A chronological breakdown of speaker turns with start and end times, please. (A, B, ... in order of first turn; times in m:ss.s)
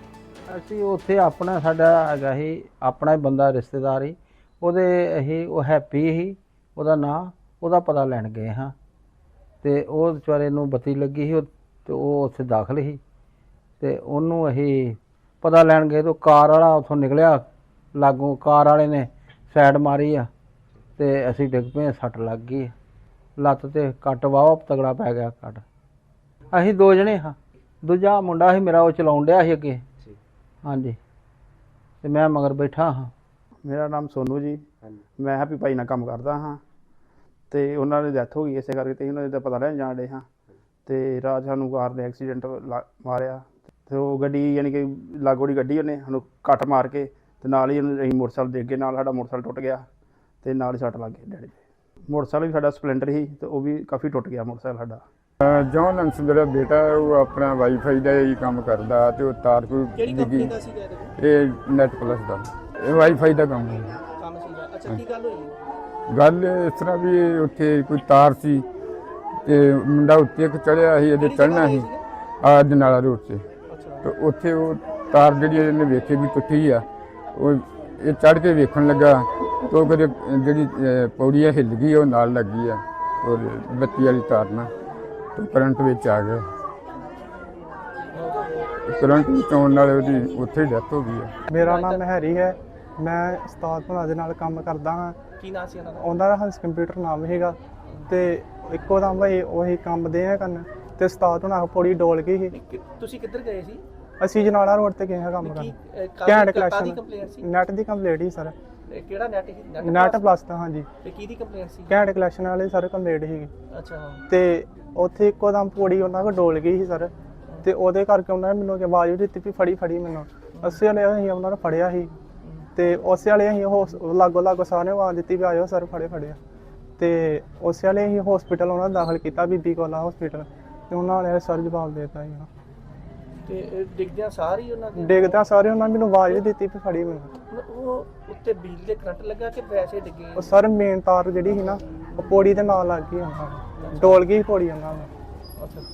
0:00.5-0:08.7 A
0:09.6-0:13.0 A
0:13.8-0:20.3 A
0:21.0-0:22.7 A
0:23.4-0:25.6 A
0:26.5-0:29.8 A
0:30.6-0:31.0 A
0:32.0-0:33.1 A
0:33.6-0:36.6 B
0:37.5-0:40.3 B
0:40.8-0:49.8 B
0:50.4-0:51.6 B
0:52.1-0:55.0 B
0:55.4-1:00.5 C
0:59.9-1:01.1 D
1:01.2-1:04.0 C
1:04.1-1:05.6 D
1:06.1-1:08.6 C
1:09.4-1:11.9 C
1:11.2-1:12.0 D
1:12.4-1:13.4 C
1:13.7-1:14.1 D
1:14.0-1:24.7 C
1:25.4-1:26.4 C
1:28.1-1:28.7 D
1:28.9-1:31.3 C
1:31.5-1:35.2 E
1:31.6-1:32.1 D
1:35.4-1:36.1 D
1:36.0-1:37.6 E
1:37.9-1:38.3 D
1:38.1-1:42.5 E
1:42.5-1:43.8 D
1:44.2-1:45.7 E
1:45.4-1:47.4 D
1:46.2-1:48.5 E
1:48.9-1:50.3 D
1:49.8-1:50.9 E
1:51.0-1:52.0 D
1:51.9-1:53.5 E
1:53.7-1:54.2 D
1:54.3-1:57.1 E
1:57.6-2:02.1 E
2:00.5-2:00.8 D
2:02.4-2:02.7 D
2:02.8-2:06.4 E
2:07.0-2:12.5 E
2:13.4-2:15.6 D
2:15.0-2:17.3 E
2:17.5-2:20.6 D
2:20.4-2:25.1 E
2:21.5-2:22.6 D
2:23.8-2:24.2 D
2:25.6-2:25.8 D